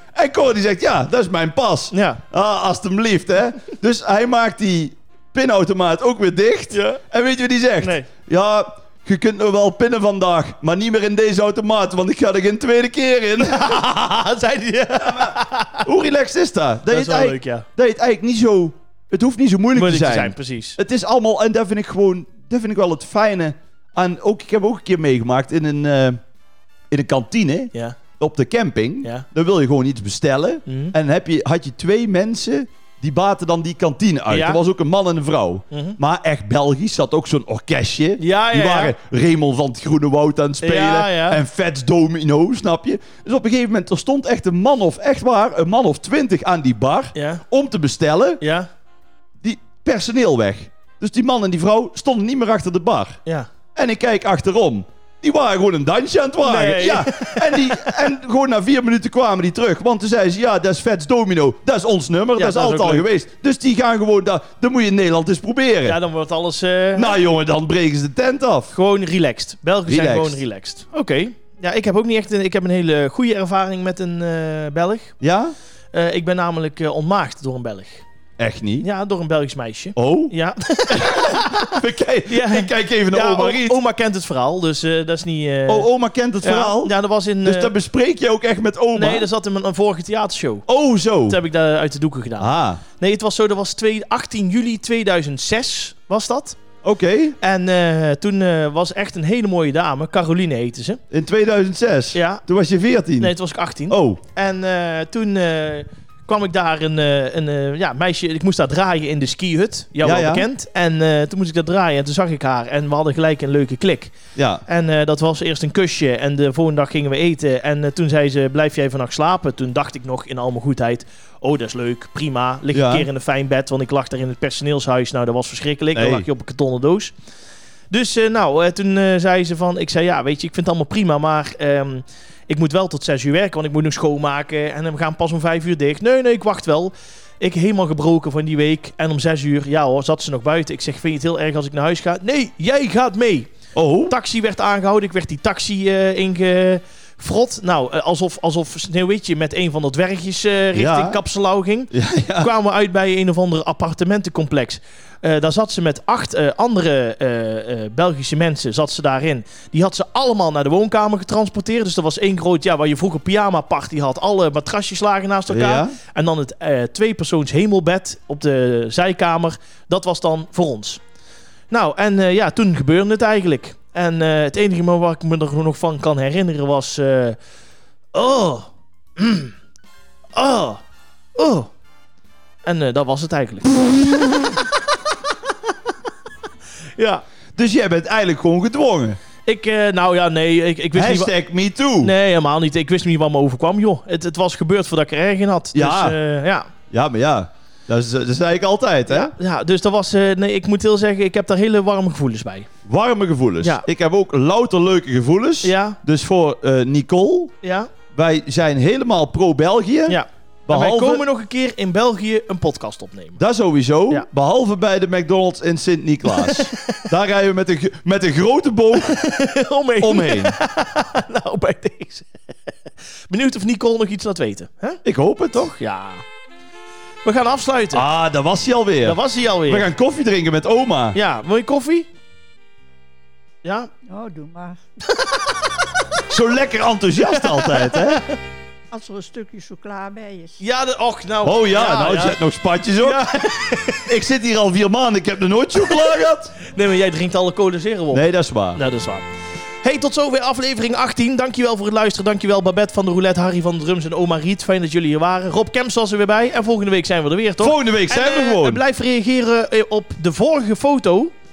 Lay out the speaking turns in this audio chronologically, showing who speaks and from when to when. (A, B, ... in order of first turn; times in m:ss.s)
0:00.1-0:13.8 A
0:01.9-0:02.2 B
0:06.7-0:07.0 B
0:07.8-0:08.1 B
0:13.4-0:15.8 B
0:15.0-0:26.2 A
0:16.9-0:17.6 B
0:19.7-0:20.8 B
0:26.9-0:48.4 A
0:30.7-0:30.9 B
0:34.3-0:34.6 B
0:35.7-0:36.0 B
0:38.2-0:38.9 B
0:40.6-0:41.4 B
0:47.1-0:47.4 B
0:48.4-0:48.7 B
0:49.4-0:53.2 A
0:53.7-1:06.0 A
0:56.4-0:57.8 B
1:02.4-1:03.0 B
1:05.8-1:07.1 B
1:06.9-1:08.7 A
1:08.7-1:15.2 B
1:09.9-1:10.4 A
1:15.2-1:15.5 A
1:15.9-1:18.0 B
1:18.4-1:18.9 A
1:18.8-1:25.9 B
1:20.0-1:20.3 A
1:20.9-1:23.8 A
1:25.7-1:29.3 A
1:26.4-1:27.7 B
1:29.0-1:30.6 B
1:30.7-1:31.4 A
1:31.3-1:36.6 B
1:32.4-1:32.8 A
1:36.8-1:37.4 A
1:37.4-1:41.0 B
1:41.1-1:43.3 A
1:42.1-1:42.4 B
1:43.2-2:07.1 B
1:43.9-1:44.2 A
1:50.0-1:50.5 A
1:54.4-1:54.6 A
2:02.7-2:03.1 A
2:05.9-2:06.3 A
2:07.9-2:23.5 B
2:23.7-2:24.1 A
2:24.1-2:51.0 B
2:30.7-2:31.2 A
2:31.9-2:32.5 A
2:45.5-2:46.0 A
2:51.7-2:57.4 B
2:58.1-2:59.5 B
3:00.3-3:00.8 B
3:01.4-3:01.7 B
3:02.6-3:04.4 B
3:07.0-3:07.2 B
3:07.6-3:09.2 A
3:09.4-3:11.3 B
3:10.9-3:12.1 A
3:12.0-3:16.7 B
3:15.7-3:16.2 A
3:16.9-3:19.3 A
3:19.1-3:22.7 B
3:22.8-3:27.5 A
3:25.6-3:26.0 B
3:27.6-3:27.9 B
3:28.1-3:31.2 A
3:30.1-3:33.4 B
3:33.4-3:39.2 A
3:36.3-3:37.0 B
3:39.0-3:42.4 B
3:40.0-3:40.6 A
3:43.3-3:45.0 B
3:45.0-3:45.7 A
3:45.5-3:46.2 B
3:47.2-3:48.0 B
3:47.9-3:51.2 A
3:49.0-3:49.9 B
3:51.1-3:52.1 B
3:53.6-3:53.9 B
3:54.1-3:54.8 C
3:56.3-3:58.2 A
3:57.2-3:58.3 B
3:58.9-4:00.6 C
4:00.6-4:02.4 B
4:01.4-4:03.2 A
4:03.0-4:04.1 B
4:04.0-4:06.5 A
4:06.6-4:09.2 B
4:08.1-4:08.8 A
4:09.8-4:21.3 B
4:17.6-4:18.8 A